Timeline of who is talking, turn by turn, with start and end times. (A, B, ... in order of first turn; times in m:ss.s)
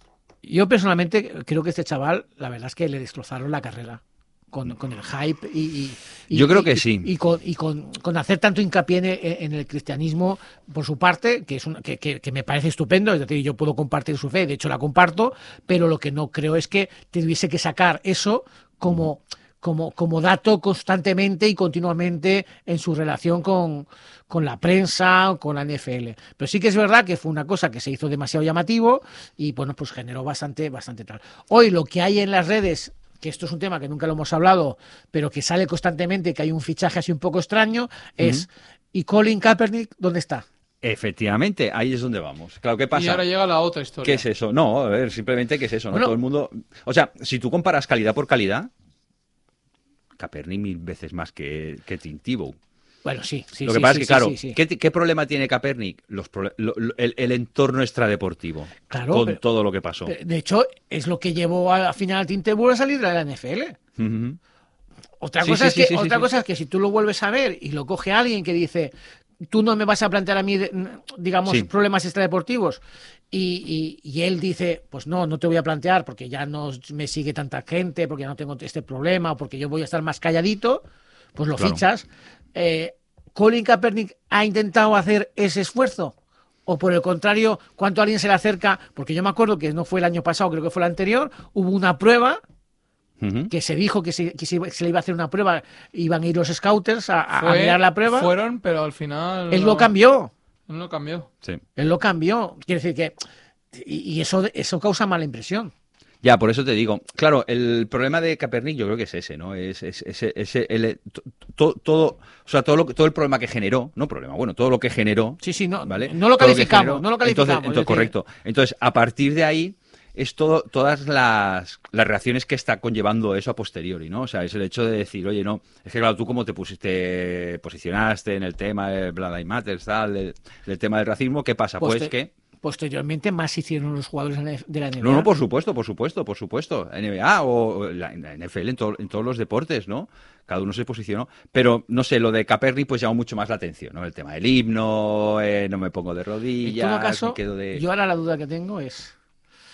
0:00.4-0:40.4 A
0:06.3-0:07.1 B
0:38.2-0:38.4 B
0:40.8-0:43.2 B
0:42.9-0:44.2 C
0:44.0-0:48.7 B
0:45.9-0:46.2 A
0:50.2-0:52.6 B
0:53.0-0:54.6 A
0:53.6-1:00.1 B
0:58.9-0:59.4 A
1:00.0-1:03.8 A
1:04.0-1:04.4 B
1:05.2-1:08.9 A
1:05.4-1:06.3 B
1:09.5-1:12.8 A
1:13.3-1:32.4 A
1:33.2-1:33.5 B
1:33.5-1:38.3 A
1:37.3-1:39.9 C
1:39.5-1:40.3 A
1:40.7-1:41.3 C
1:41.8-1:43.2 A
1:43.7-1:45.7 A
1:46.2-2:12.3 B
1:55.4-1:58.1 A
2:11.8-2:12.1 A
2:12.6-2:15.3 A
2:15.0-2:27.8 B
2:26.6-2:29.1 A